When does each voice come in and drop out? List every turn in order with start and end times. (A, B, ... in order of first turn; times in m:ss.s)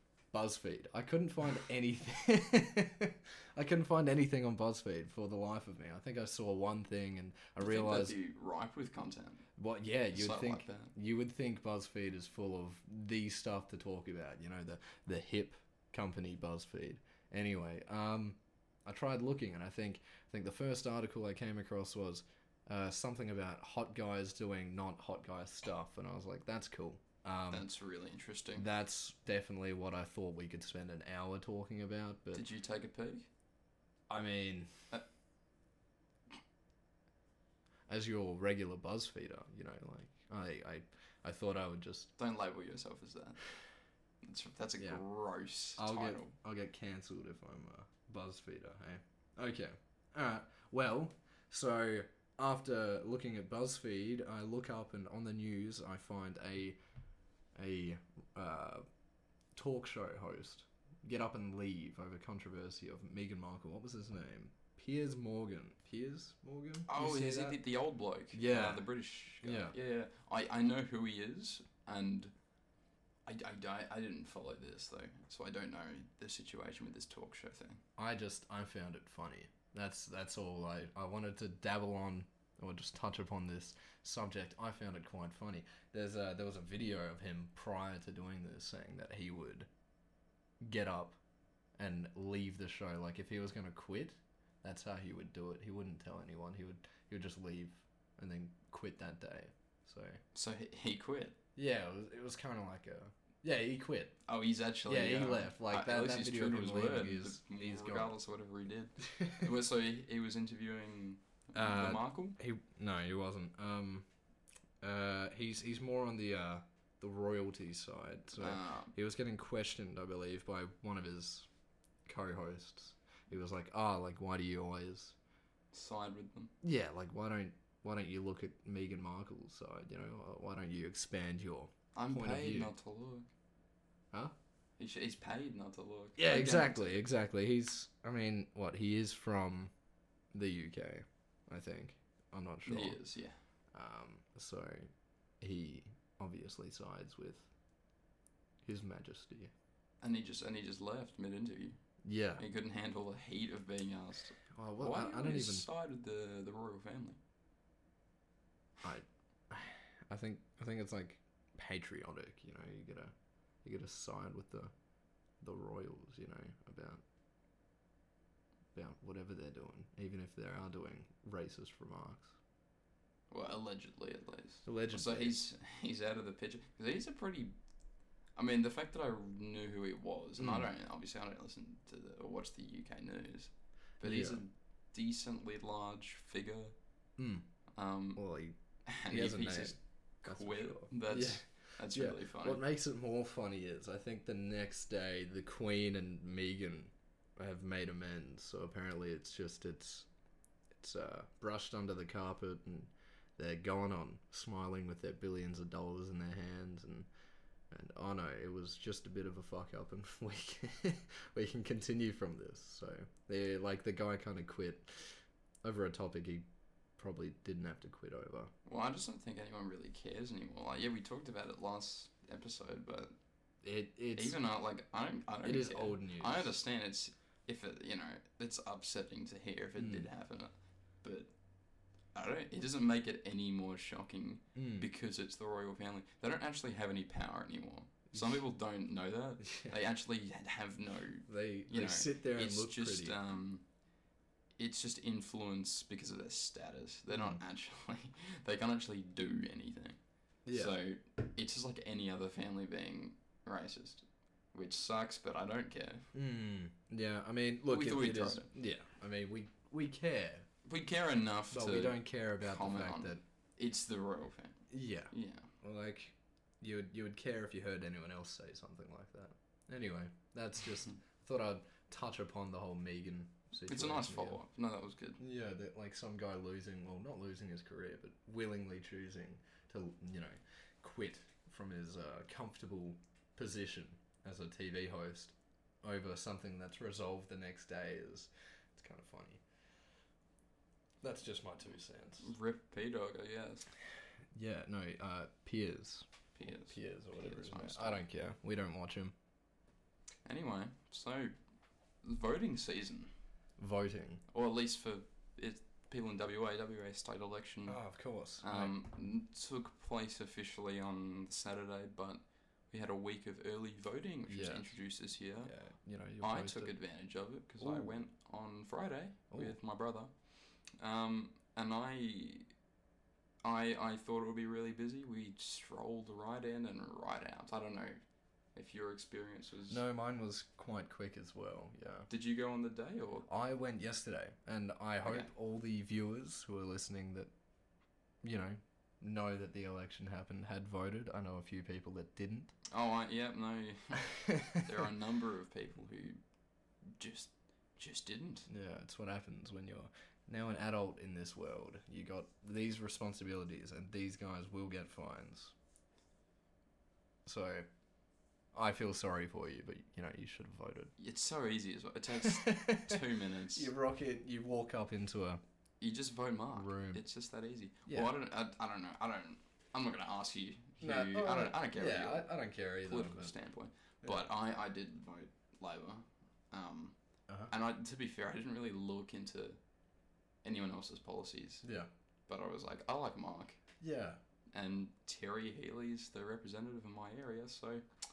0:00.3-0:08.2 A
0:07.6-0:09.5 B
0:09.6-0:27.7 A
0:10.1-0:10.9 B
0:27.5-0:28.6 B
0:28.6-0:32.4 A
0:32.3-0:33.3 B
0:34.1-0:34.7 A
0:37.9-0:42.1 A
0:42.2-0:43.4 B
0:44.2-0:46.3 B
0:45.8-0:56.8 A
0:57.6-0:58.8 A
0:59.6-1:07.6 A
1:06.9-1:12.3 B
1:08.3-1:08.9 A
1:09.4-1:09.7 A
1:13.3-1:17.8 B
1:18.0-1:29.7 A
1:30.6-1:31.2 A
1:31.8-1:40.2 A
1:40.4-1:41.4 B
1:41.6-1:44.2 A
1:44.3-1:52.4 B
1:44.9-1:48.2 A
1:49.1-1:49.5 A
1:51.6-1:54.1 A
1:54.8-2:01.5 A
1:58.4-1:58.9 B
2:02.1-2:05.2 A
2:05.7-2:06.5 B
2:06.6-2:12.7 A
2:12.0-2:13.3 B
2:14.8-2:17.0 B
2:16.2-2:19.7 A
2:20.3-2:23.0 A
2:22.7-2:23.4 B
2:23.7-2:24.9 A
2:25.4-2:27.5 A
2:28.6-2:29.5 A
2:30.0-2:31.8 B
2:32.0-2:32.4 A
2:32.4-2:37.2 B
2:34.5-2:35.7 A
2:38.8-2:44.7 A
2:45.4-2:47.0 A
2:48.8-2:52.4 A
2:53.3-2:57.5 B
2:54.6-2:55.4 A
2:58.4-3:06.8 B
3:00.4-3:00.7 A
3:04.0-3:04.4 A
3:07.2-3:07.5 A
3:07.8-3:08.2 B
3:08.2-3:08.6 A
3:08.9-3:12.6 B
3:09.1-3:20.1 A
3:20.8-3:27.1 A
3:27.7-3:36.5 A
3:37.0-3:38.5 A
3:38.7-3:43.2 B
3:43.6-3:44.4 A
3:44.2-3:51.3 B
3:45.4-3:46.5 A
3:49.8-3:50.1 A
3:52.2-4:03.6 B
3:54.6-3:54.9 A
3:58.1-3:58.4 A
3:59.4-3:59.8 A
4:01.3-4:03.2 A
4:04.6-4:10.0 B
4:07.1-4:07.4 A
4:10.5-4:10.8 A
4:10.5-4:16.1 B
4:16.1-4:20.5 A
4:17.7-4:18.5 B
4:20.6-4:25.5 B
4:21.5-4:23.2 A
4:24.7-4:34.4 A
4:33.7-4:35.2 B
4:35.2-4:49.4 A
4:51.0-4:52.3 A
4:52.2-4:53.7 B
4:54.3-4:59.1 A
4:56.4-4:58.0 B
5:00.2-5:01.3 B
5:02.0-5:03.1 B
5:03.6-5:04.2 A
5:04.3-5:07.8 B
5:07.7-5:08.8 A
5:08.4-5:15.5 B
5:14.3-5:14.8 A
5:15.4-5:16.8 A
5:16.2-5:20.1 B
5:17.6-5:18.0 A
5:19.3-5:19.6 A
5:20.7-5:22.5 B
5:23.4-5:28.0 B
5:28.6-5:29.8 B
5:29.7-5:32.1 A
5:32.1-5:33.3 B
5:33.3-5:37.3 A
5:35.0-5:35.3 B
5:38.2-5:42.5 A
5:42.7-5:46.2 B
5:44.1-5:44.6 A
5:47.0-5:48.5 B
5:48.5-5:55.5 A
5:57.3-5:57.7 A
5:58.5-6:00.9 A
6:01.0-6:03.7 B
6:02.1-6:05.4 A
6:05.8-6:17.0 B
6:06.5-6:07.0 A
6:07.9-6:08.1 A
6:10.8-6:13.3 A
6:17.5-6:19.6 B
6:20.4-6:21.6 B
6:21.6-6:21.9 A
6:22.3-6:23.6 B
6:23.8-6:24.2 A
6:24.5-6:27.8 B